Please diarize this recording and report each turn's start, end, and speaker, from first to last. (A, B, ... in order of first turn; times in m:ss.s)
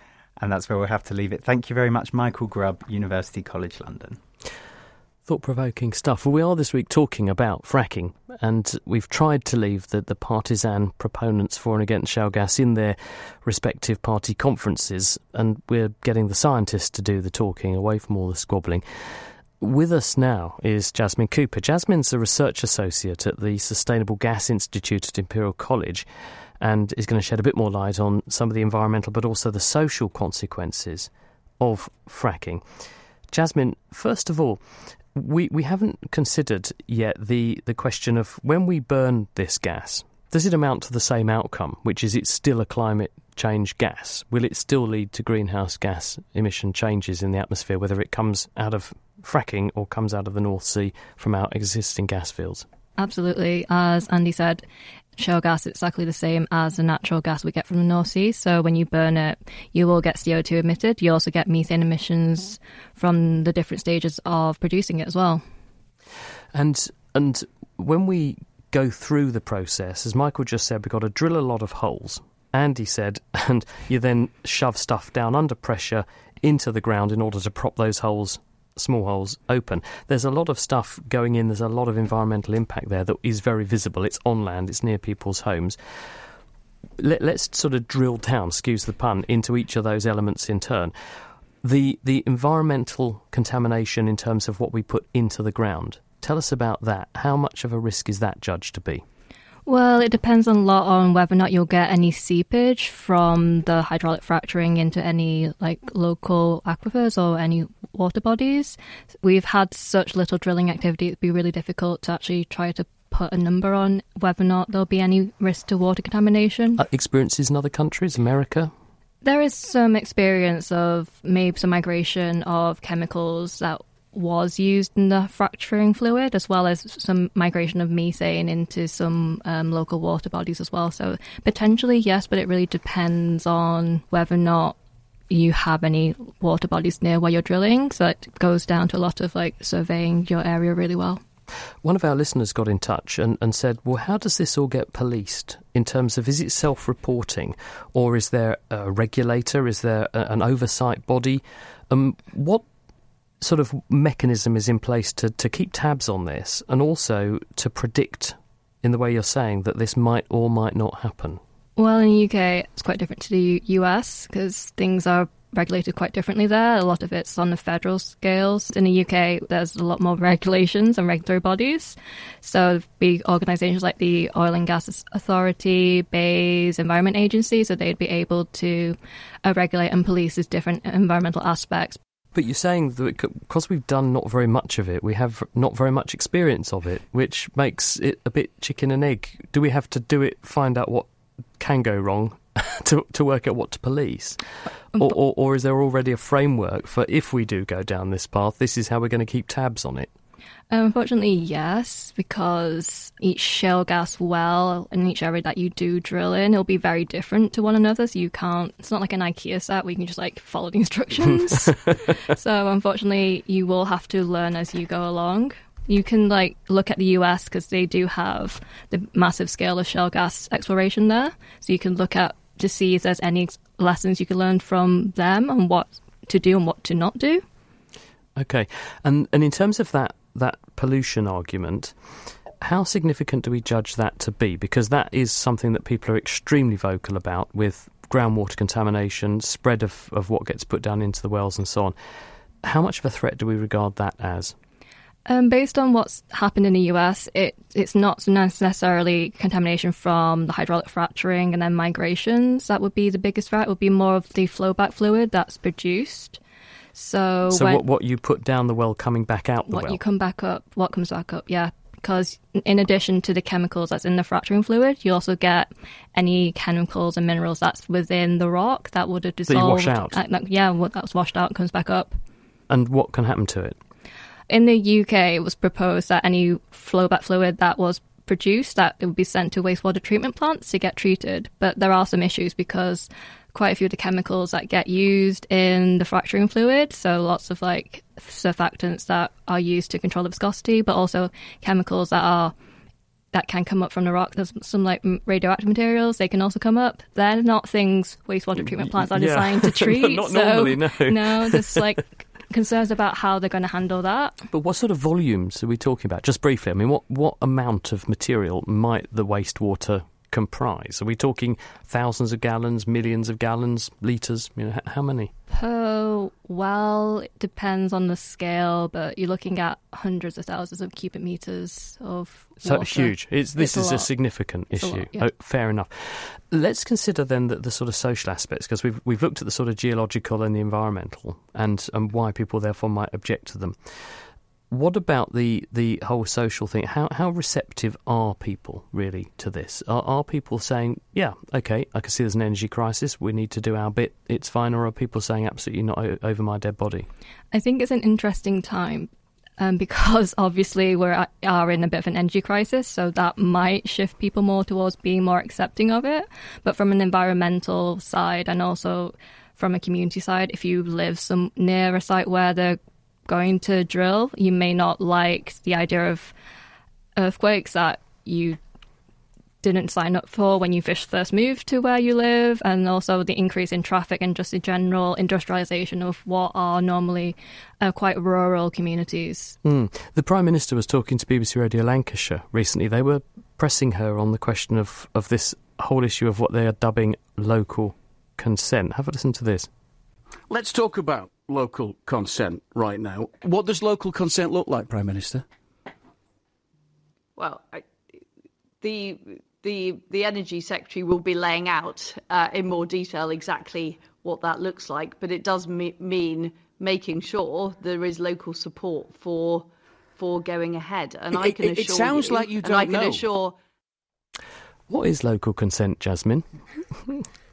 0:00.4-0:04.2 A
0:05.3-0:18.8 B
0:19.6-0:26.1 B
0:26.6-0:32.6 B
0:33.3-0:34.6 B
0:35.1-0:52.6 B
0:53.0-0:54.6 C
0:55.2-1:05.4 C
1:06.5-1:25.8 B
1:27.0-1:30.9 B
1:31.6-1:39.0 B
1:39.7-1:56.8 C
1:56.8-1:58.7 B
1:59.2-2:14.8 C
2:15.3-2:21.2 C
2:21.8-2:32.6 B
2:33.4-2:41.4 B
2:41.8-3:02.0 C
3:02.3-3:11.1 B
3:11.6-3:14.4 B
3:15.0-3:20.1 B
3:20.7-3:47.4 C
3:48.4-3:51.9 B
3:52.6-4:02.0 B
4:02.6-4:04.6 B
4:05.3-4:16.4 C
4:17.0-4:17.8 C
4:17.5-4:20.0 B
4:19.7-4:32.2 C
4:29.5-4:30.2 B
4:32.7-4:33.8 B
4:34.5-4:52.5 C
4:53.3-5:04.4 C
4:58.6-5:01.8 B
5:04.5-5:15.3 B
5:15.5-5:25.3 C
5:22.6-5:34.2 B
5:34.7-5:47.1 B
5:47.5-6:06.3 C
6:07.2-6:08.6 C
6:09.6-6:19.6 C
6:19.6-6:29.7 B
6:30.5-6:35.4 D
6:37.4-6:37.9 E
6:38.8-6:53.6 E
6:51.3-6:53.3 D
6:54.9-6:56.4 B